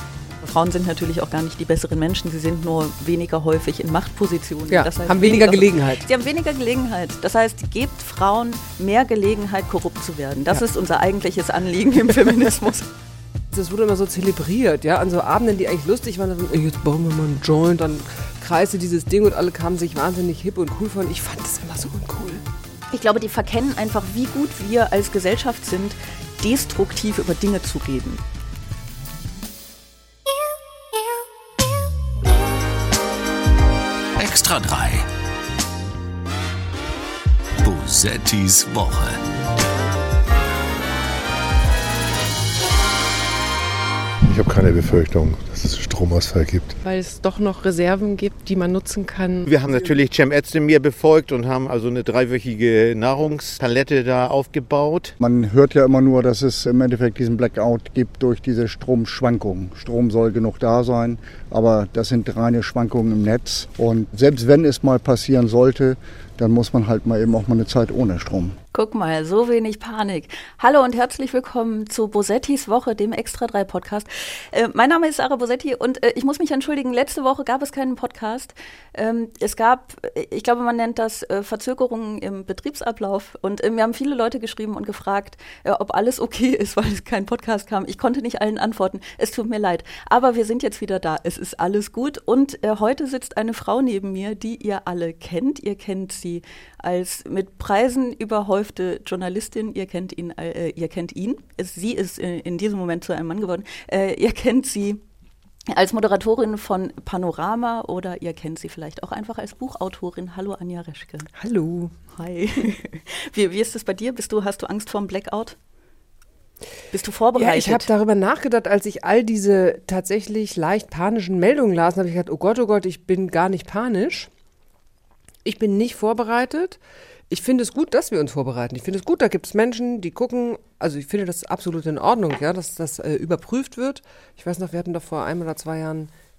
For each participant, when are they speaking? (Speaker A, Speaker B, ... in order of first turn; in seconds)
Speaker A: 0.4-12.9, 22.9-28.2, 68.7-105.0, 105.7-111.3, 112.2-115.6, 116.9-117.9
Speaker B: 4.7-6.0, 13.5-22.4, 111.4-111.9, 117.3-124.3, 125.5-136.1
Speaker C: 34.2-35.1, 37.6-39.2
Speaker D: 44.3-46.8
Speaker E: 46.8-49.5
Speaker F: 49.4-55.2
Speaker G: 55.2-68.5